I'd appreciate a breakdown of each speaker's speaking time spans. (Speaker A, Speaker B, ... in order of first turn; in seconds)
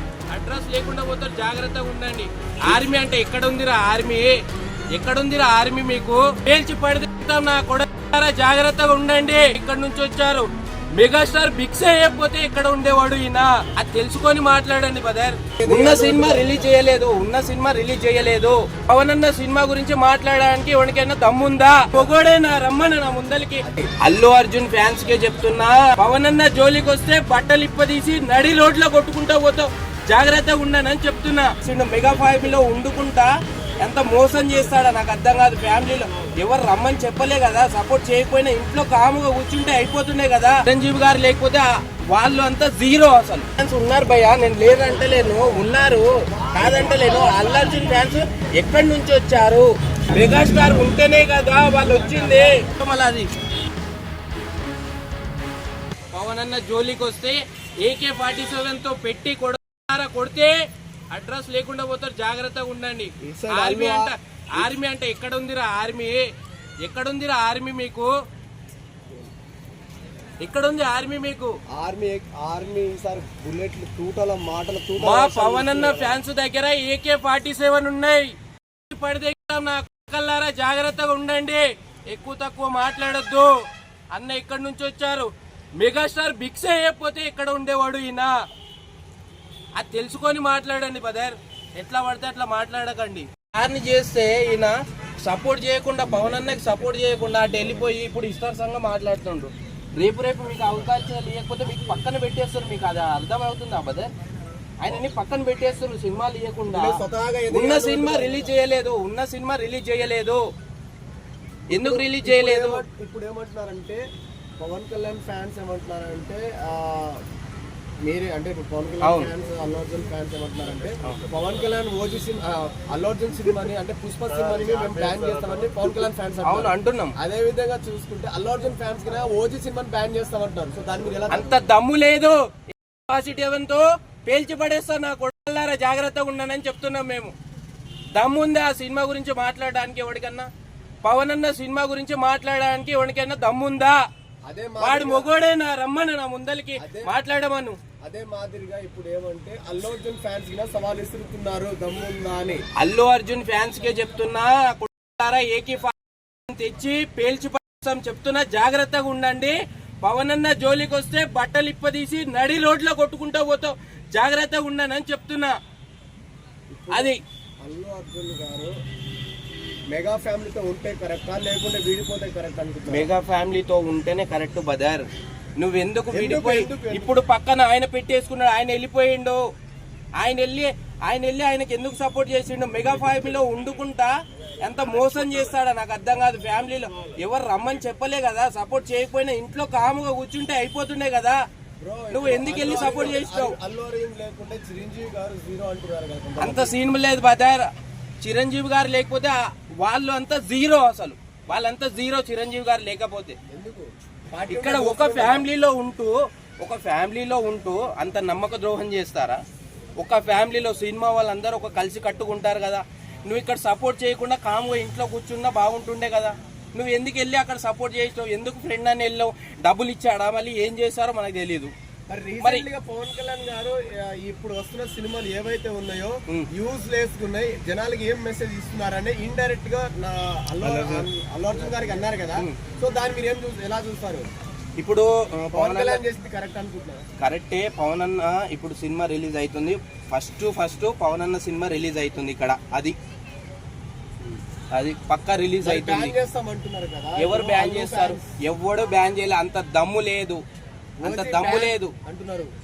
Speaker A: 0.3-4.4, 4.9-53.3, 56.1-60.5, 61.1-66.3, 66.8-68.1, 70.4-71.6, 75.0-78.3, 78.9-83.5, 84.1-88.3, 89.8-104.1, 104.8-106.9, 107.5-110.4, 111.7-112.8, 119.0-119.3, 126.4-127.2, 131.3-137.3, 138.1-140.5, 141.0-144.0, 144.8-147.8, 152.8-165.5, 166.9-167.2, 172.9-175.0, 175.6-179.4, 180.2-191.4, 192.1-193.6, 196.4-197.7, 198.2-203.4, 204.4-209.4, 210.0-221.7, 230.6-231.1, 234.8-236.0, 237.2-243.0, 244.7-246.1, 247.2-250.4, 251.0-251.9
Speaker B: 15.6-16.7, 23.6-23.9, 46.5-47.2, 63.2-64.7, 71.7-76.2, 106.7-108.5, 111.7-114.0, 114.6-117.2, 118.0-131.7, 144.4-145.3, 146.8-147.1, 148.0-152.6, 166.7-168.7, 169.9-173.1, 176.1-177.2, 191.8-196.8, 203.5-205.5, 222.1-234.3, 235.5-237.0, 245.6-248.2, 251.0-252.5